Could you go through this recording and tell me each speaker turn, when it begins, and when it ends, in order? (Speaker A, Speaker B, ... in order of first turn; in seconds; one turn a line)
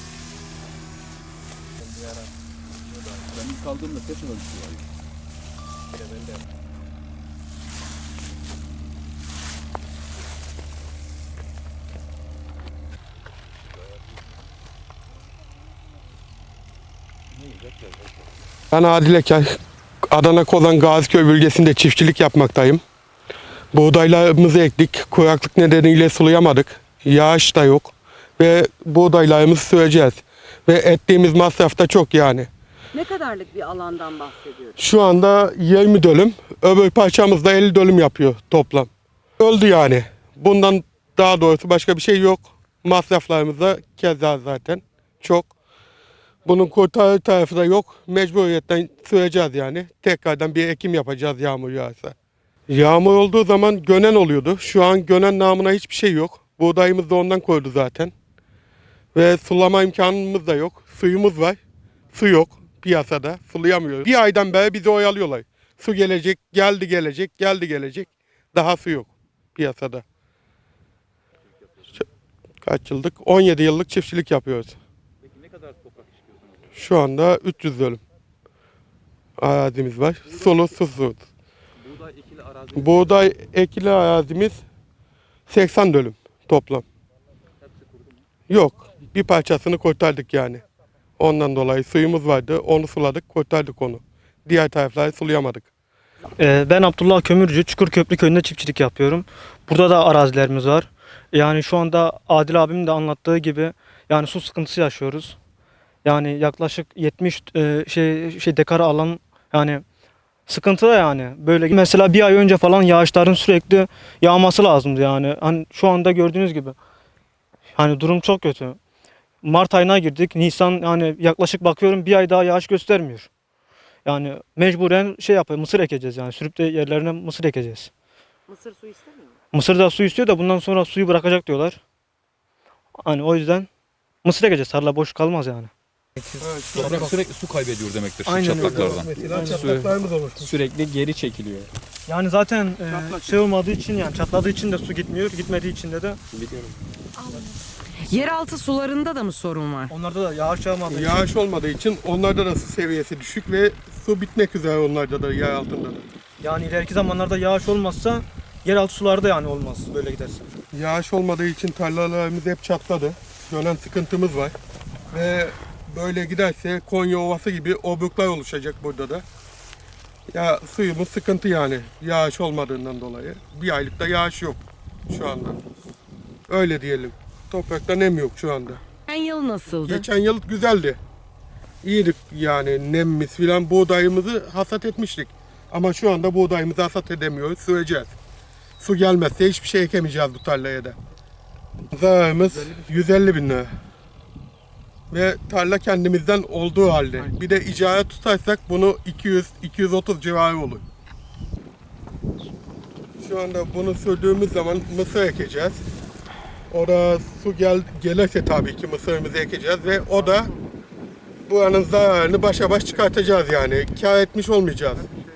Speaker A: 3.3-4.8
Speaker B: 18.7-19.6
Speaker B: 20.1-22.8
Speaker B: 23.7-32.5
Speaker C: 32.9-34.8
Speaker B: 34.8-45.5
Speaker B: 46.5-52.1
Speaker B: 52.7-58.1
Speaker B: 59.1-61.6
Speaker B: 62.1-70.0
Speaker B: 72.6-74.8
Speaker B: 76.7-78.0
Speaker B: 79.4-81.3
Speaker B: 82.6-84.6
Speaker B: 85.5-86.8
Speaker B: 88.5-90.6
Speaker B: 91.2-95.7
Speaker D: 96.3-105.3
Speaker D: 106.0-109.8
Speaker D: 110.5-116.8
Speaker D: 117.8-118.8
Speaker D: 119.4-123.3
Speaker D: 124.0-127.9
Speaker C: 128.5-129.4
Speaker D: 129.5-131.8
Speaker D: 133.0-133.7
Speaker D: 134.2-135.7
Speaker B: 136.4-137.2
Speaker A: 136.7-139.1
Speaker D: 138.2-139.8
Speaker B: 138.6-140.5
Speaker E: 139.2-141.7
Speaker D: 142.1-146.2
Speaker C: 147.2-147.5
Speaker C: 148.0-149.9
Speaker D: 149.9-151.2
Speaker B: 150.9-156.1
Speaker D: 156.4-160.5
Speaker B: 160.7-164.5
Speaker B: 165.1-169.2
Speaker B: 170.3-175.6
Speaker B: 176.5-178.8
Speaker C: 179.1-180.1
Speaker B: 179.8-181.0
Speaker B: 181.8-188.1
Speaker B: 188.8-191.0
Speaker B: 191.9-193.7
Speaker B: 195.1-200.8
Speaker B: 203.2-205.8
Speaker B: 206.7-210.5
Speaker B: 211.5-215.1